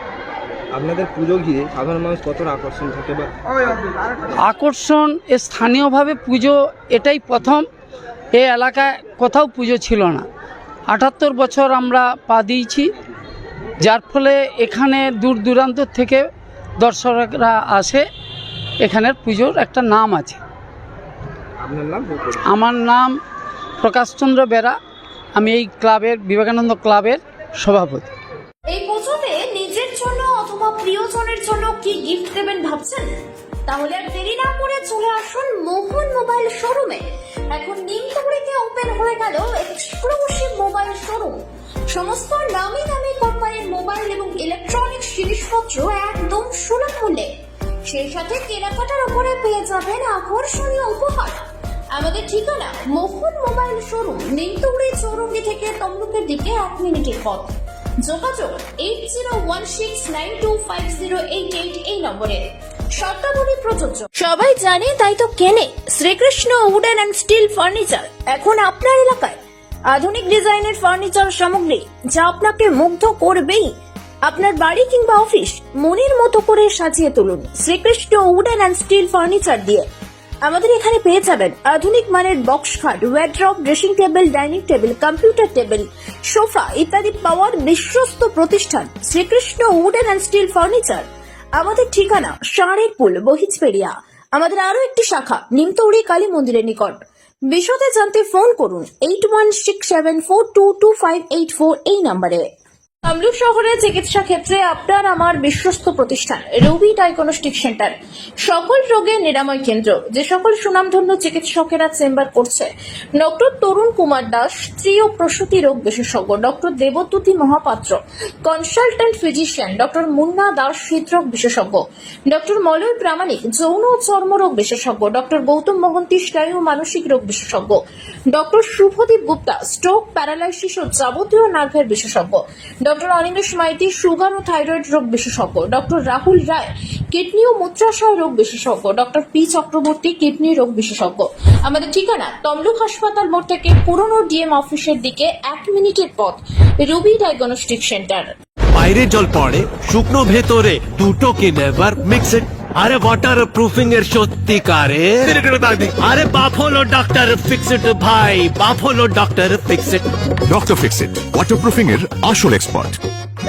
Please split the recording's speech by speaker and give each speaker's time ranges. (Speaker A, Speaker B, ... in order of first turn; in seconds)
Speaker A: 0.7-3.3, 21.6-22.5
Speaker B: 4.4-7.6, 8.3-10.2, 10.9-12.9, 13.8-16.2, 16.8-18.0, 18.8-20.4, 22.4-23.2, 23.8-24.8, 25.4-28.1
Speaker C: 28.7-33.1, 33.7-47.3, 47.9-57.5, 58.0-62.4, 62.9-69.4, 69.9-73.7, 74.2-79.8, 80.4-102.4, 103.0-127.8, 128.3-148.3
Speaker D: 148.7-160.0
Speaker E: 160.5-163.0